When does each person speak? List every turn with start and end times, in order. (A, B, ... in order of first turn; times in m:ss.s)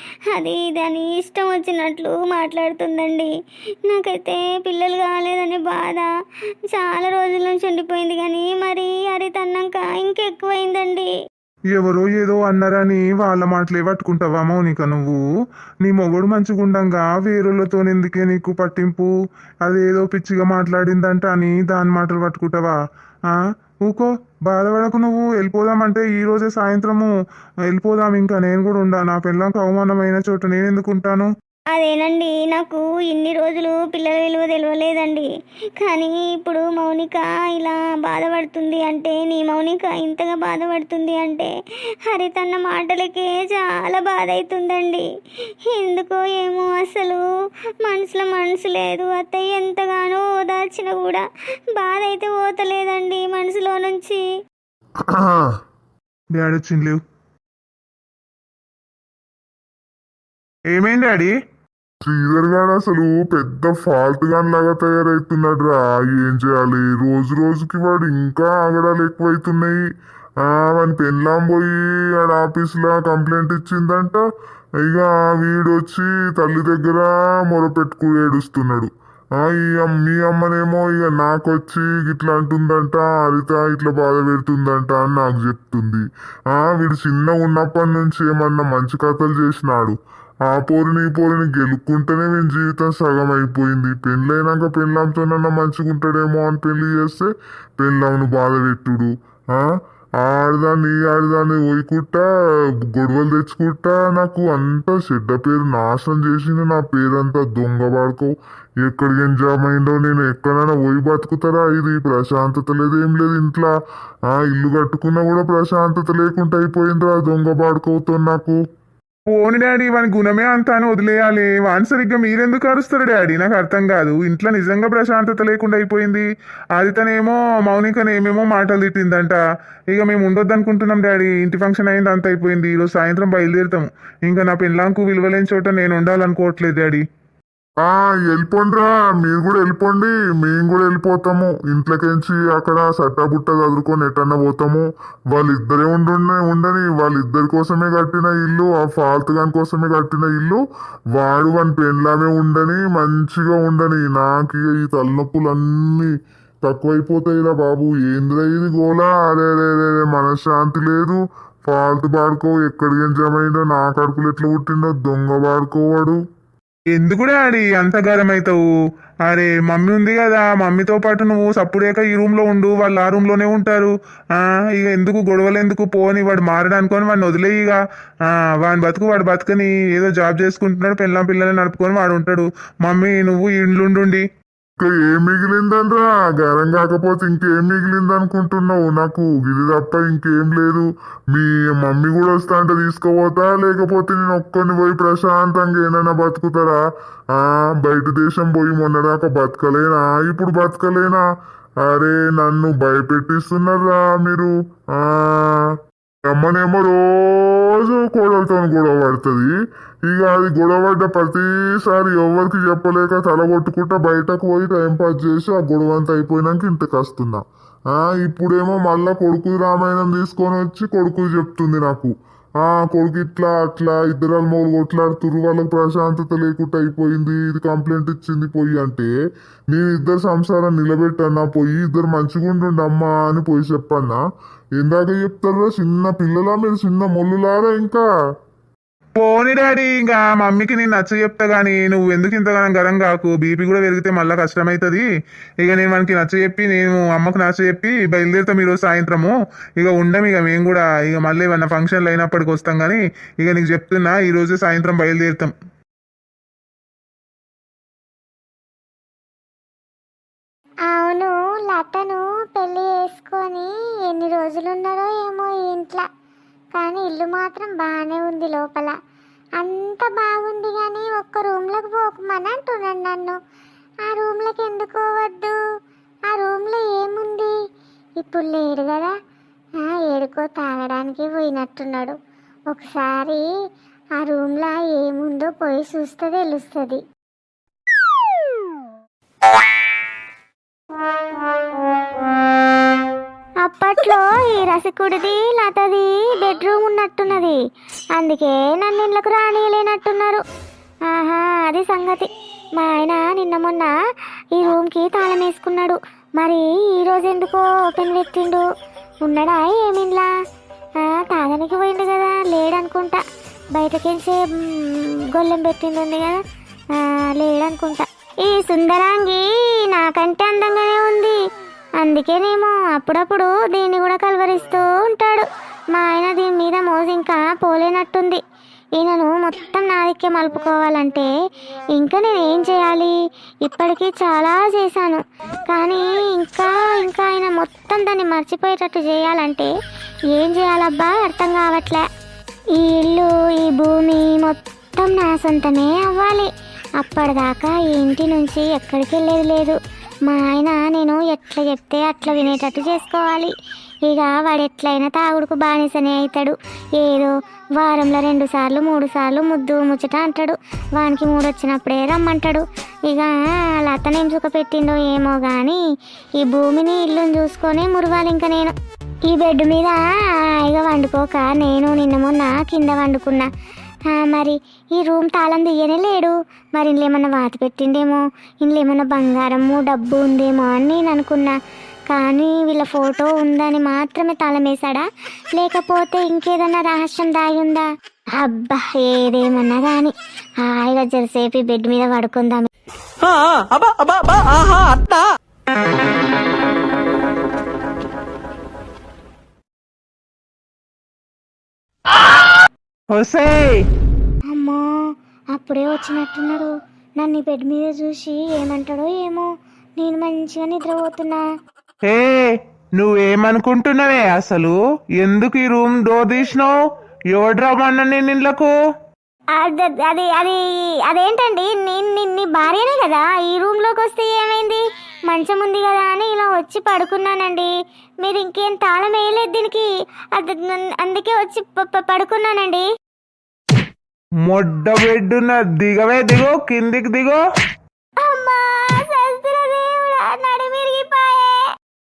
0:00.3-0:03.3 A
0:03.9-0:06.1 A
0:06.7-0:11.1 A
0:11.7-0:15.2 B
0:15.8-0:19.1 B
0:19.6-0:22.8 B
0:23.8-0:27.1 B
0:27.7-0:31.3 B
0:31.7-0:35.3 A
0:35.8-0:41.5 A
0:42.1-0:45.0 A
0:45.7-0:47.2 A
0:47.8-0:54.3 A
0:55.0-0:55.5 C
0:56.3-0:57.0 B
1:00.7-1:01.3 B
1:02.0-1:09.8 C
1:10.4-1:14.2 C
1:14.8-1:30.0 C
1:30.5-1:42.3 C
1:42.8-1:48.3 C
1:48.8-1:53.7 C
1:54.3-1:58.6 C
1:59.3-2:06.2 B
2:06.8-2:09.4 B
2:09.9-2:17.0 B
2:17.8-2:30.6 C
2:31.2-2:36.1 C
2:36.6-2:46.2 C
2:47.0-2:48.6 B
2:49.3-3:04.2 B
3:04.8-3:16.8 C
3:17.3-3:21.2 C
3:21.8-3:25.8 C
3:26.3-3:29.5 C
3:30.1-3:49.1 C
3:49.7-3:54.2 C
3:54.8-3:58.1 C
3:59.2-4:05.0 B
4:05.6-4:15.5 B
4:20.9-4:26.0 A
4:26.8-4:29.0 A
4:29.6-4:33.4 A
4:34.1-4:35.6 A
4:36.3-4:37.6 A
4:38.2-4:39.1 A
4:39.8-4:42.2 A
4:42.7-4:43.4 A
4:44.2-4:47.0 A
4:53.6-4:57.6 A
4:58.2-5:00.4 A
5:01.1-5:03.9 A
5:04.6-5:08.6 A
5:09.2-5:10.3 A
5:11.0-5:13.2 A
5:13.7-5:16.4 A
5:17.0-5:21.4 A
5:22.0-5:28.4 A
5:29.0-5:31.3 A
5:32.0-5:39.7 A
5:40.3-5:42.0 A
5:42.7-5:46.5 A
5:47.0-5:53.5 A
5:54.1-6:05.8 A
6:06.4-6:08.8 A
6:09.3-6:10.0 A
6:10.6-6:13.5 A
6:14.1-6:21.6 A
6:22.1-6:25.0 A
6:25.6-6:32.7 A
6:33.2-6:35.2 D
6:43.1-6:43.8 B
6:44.5-6:44.8 A
6:45.6-6:51.4 A
6:52.1-6:52.4 B
6:53.0-6:56.8 B
6:57.3-6:58.7 B
6:59.6-7:12.8 A
7:14.5-7:17.4 B
7:18.2-7:21.7 A